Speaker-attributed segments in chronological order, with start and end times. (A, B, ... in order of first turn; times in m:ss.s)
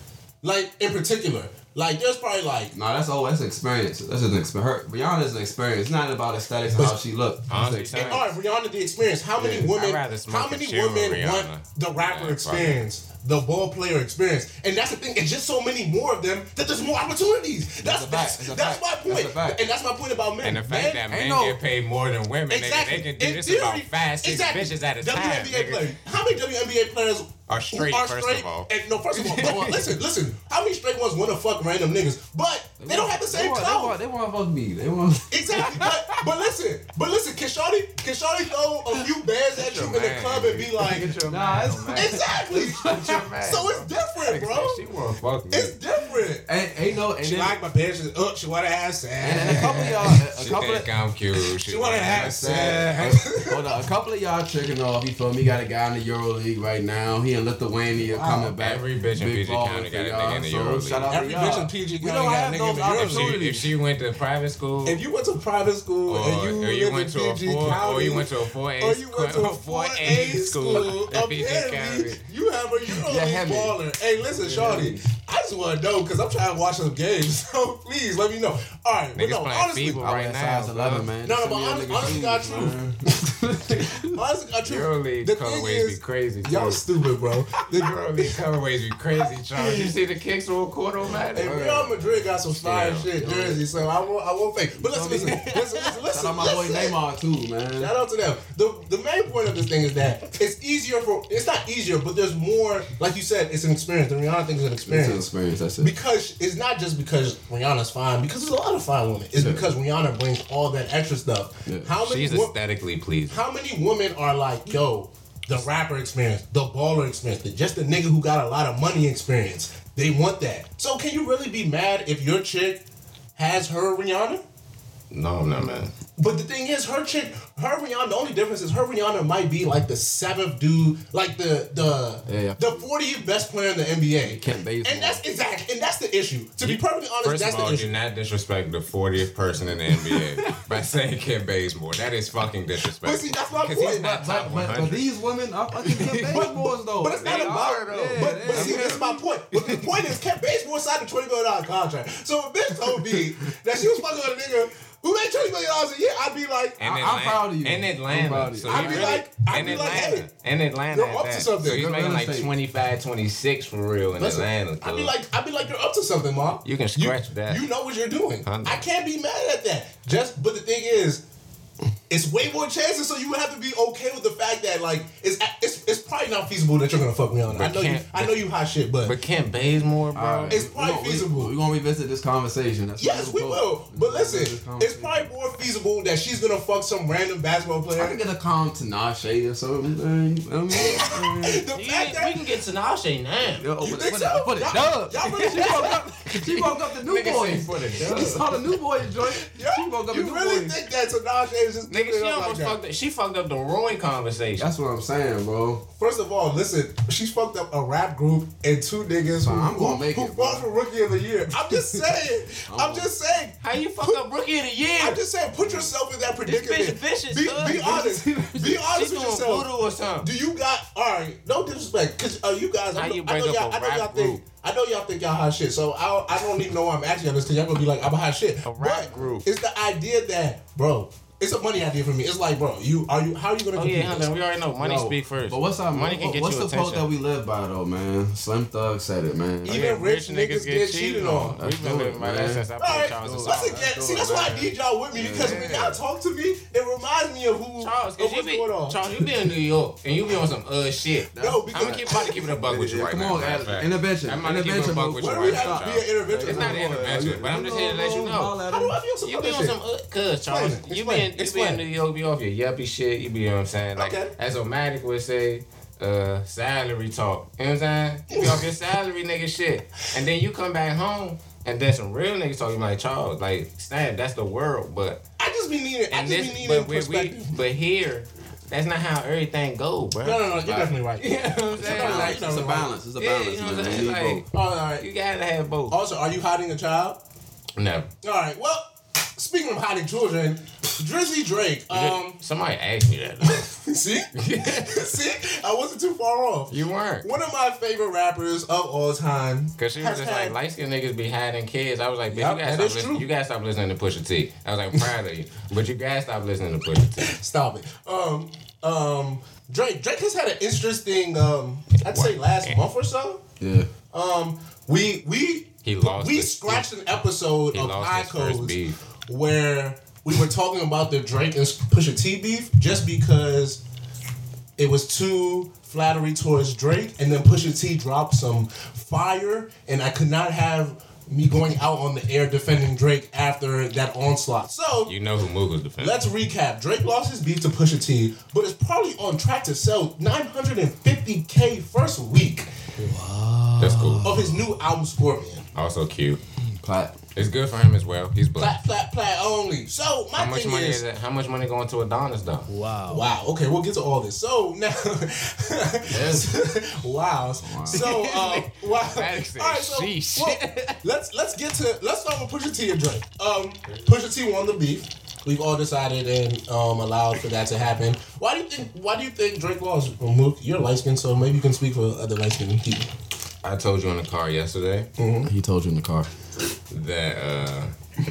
0:00.4-0:02.7 A
0:02.7-0:08.2 B
0:07.5-0:08.3 C
0:08.0-0:21.0 A
0:09.4-0:12.8 C
0:17.8-0:19.6 B
0:20.4-0:25.9 C
0:21.1-0:21.6 B
0:22.5-0:34.0 A
0:27.5-0:29.6 C
0:29.3-0:29.8 B
0:32.8-0:35.9 B
0:35.3-0:41.1 A
0:39.6-0:45.7 C
0:41.2-0:43.3 B
0:41.9-0:44.8 A
0:45.5-0:46.5 A
0:46.5-0:47.6 B
0:47.2-0:50.2 A
0:49.2-0:50.9 B
0:49.5-0:52.9 C
0:51.6-0:53.7 A
0:52.1-1:03.7 B
0:58.1-0:58.5 A
0:58.6-1:01.1 C
1:01.1-1:03.4 A
1:02.9-1:05.0 C
1:04.8-1:20.1 A
1:06.1-1:12.2 C
1:12.9-1:13.8 B
1:14.4-1:15.0 B
1:19.2-1:21.1 C
1:20.0-1:24.2 B
1:21.2-1:22.8 A
1:23.8-1:28.3 A
1:24.7-1:26.8 C
1:27.6-1:31.6 C
1:29.6-1:29.9 A
1:31.3-1:37.0 A
1:31.4-1:32.0 B
1:32.5-1:33.1 C
1:33.1-1:33.9 B
1:34.8-1:37.9 B
1:35.3-1:35.6 C
1:37.8-1:45.3 A
1:44.9-1:45.9 B
1:45.8-1:52.5 A
1:49.4-1:49.7 B
1:52.0-1:53.4 C
1:53.3-2:02.8 A
2:03.4-2:04.4 A
2:05.1-2:05.9 C
2:06.2-2:17.9 A
2:12.3-2:12.9 B
2:14.2-2:15.2 B
2:16.6-2:25.1 C
2:20.0-2:20.6 B
2:23.0-2:24.2 A
2:23.9-2:29.8 B
2:25.8-2:26.5 C
2:26.2-2:36.8 A
2:27.2-2:29.1 C
2:36.8-2:45.1 C
2:36.8-2:39.2 B
2:38.7-2:40.3 A
2:40.9-2:41.8 A
2:41.6-2:42.5 B
2:44.2-2:51.2 A
2:46.6-2:47.6 C
2:48.4-2:48.8 C
2:52.1-2:59.1 A
2:57.5-2:58.4 C
2:59.0-3:00.6 C
3:00.1-3:05.3 B
3:00.5-3:01.5 A
3:03.0-3:08.2 A
3:08.0-3:11.6 B
3:10.7-3:12.4 A
3:11.7-3:13.6 C
3:13.5-3:20.8 B
3:13.8-3:16.0 A
3:15.2-3:18.6 C
3:19.3-3:22.8 A
3:21.9-3:24.7 C
3:24.6-3:25.8 B
3:26.0-3:34.2 A
3:29.3-3:30.7 B
3:31.5-3:32.0 B
3:32.7-3:33.1 B
3:33.6-3:35.8 C
3:35.0-3:39.7 A
3:36.4-3:40.3 C
3:40.2-3:54.3 A
3:43.0-3:44.4 C
3:48.6-3:49.5 C
3:53.8-3:57.1 C
3:54.8-3:59.8 B
3:59.6-4:01.6 A
3:59.6-4:03.9 C
4:01.6-4:02.6 B
4:02.8-4:09.0 A
4:03.2-4:05.9 B
4:05.4-4:06.0 C
4:07.8-4:18.6 C
4:11.3-4:12.0 B
4:11.4-4:12.6 A
4:12.6-4:19.0 B
4:15.2-4:17.2 A
4:18.7-4:19.8 A
4:19.2-4:35.2 C
4:20.5-4:21.8 A
4:24.0-4:24.3 A
4:28.3-4:28.6 A
4:35.4-4:37.5 A
4:36.1-4:42.5 C
4:40.2-4:42.9 A
4:41.8-4:44.4 B
4:43.2-4:44.5 C
4:44.5-4:45.1 A
4:45.0-4:46.0 C
4:45.9-4:47.2 A
4:47.8-4:48.1 C
4:48.2-4:52.4 A
4:51.9-4:53.7 C
4:53.4-5:00.6 A
4:54.4-4:55.2 C
4:56.7-4:57.3 C
4:59.8-5:07.3 C
5:02.3-5:03.3 A
5:07.2-5:13.4 A
5:12.0-5:12.8 C
5:13.6-5:13.9 B
5:14.1-5:23.8 A
5:15.8-5:16.9 C
5:17.7-5:19.0 C
5:24.8-5:35.2 A
5:35.1-5:36.2 C
5:36.0-5:42.7 A
5:43.0-5:44.6 B
5:43.8-5:44.4 C
5:44.2-5:45.7 A
5:45.8-5:46.4 C
5:46.7-5:47.2 B
5:47.4-5:48.8 C
5:48.6-5:51.0 A
5:50.4-5:52.7 C
5:52.7-5:53.3 B
5:53.1-6:13.1 A
5:56.1-5:56.5 B
5:57.6-5:58.1 B
5:57.9-6:01.0 C
6:13.6-6:15.1 C
6:15.2-6:15.5 A
6:15.4-6:16.3 B
6:16.9-6:17.9 C